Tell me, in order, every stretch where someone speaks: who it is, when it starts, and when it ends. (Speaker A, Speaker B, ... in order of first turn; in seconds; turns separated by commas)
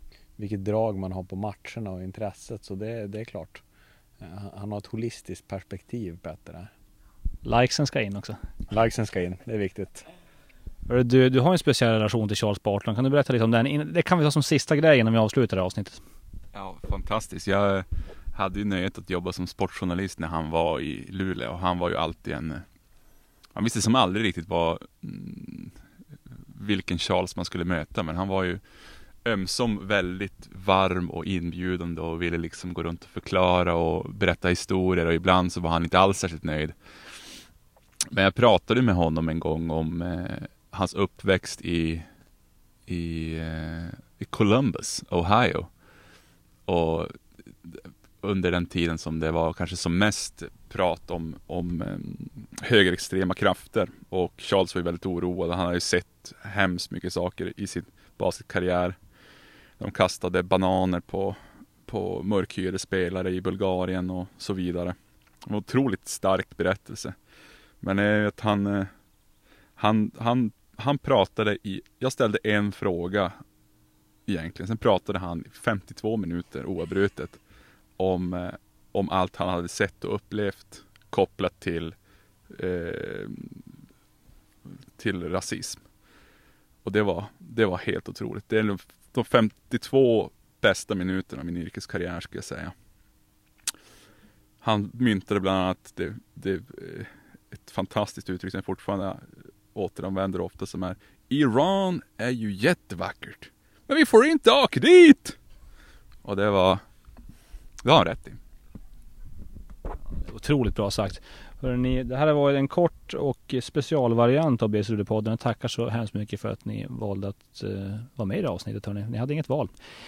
Speaker A: 0.4-3.6, Speaker A: 4.2-6.7, Speaker B: 7.4-8.4, Speaker A: 8.7-10.0, Speaker B: 10.9-16.0, Speaker C: 16.5-22.6, Speaker C: 23.5-25.7, Speaker C: 26.5-28.6, Speaker C: 29.2-36.7, Speaker C: 38.1-42.0, Speaker C: 42.9-45.7, Speaker C: 46.6-59.0, Speaker C: 59.8-67.2, Speaker C: 67.8-68.9, Speaker C: 69.8-73.4, Speaker C: 74.2-77.4, Speaker C: 78.0-81.9, Speaker C: 82.5-83.7, Speaker C: 85.0-85.8, Speaker C: 86.8-92.7, Speaker C: 94.6-105.4, Speaker C: 106.2-106.8, Speaker C: 107.8-108.4, Speaker B: 110.2-119.7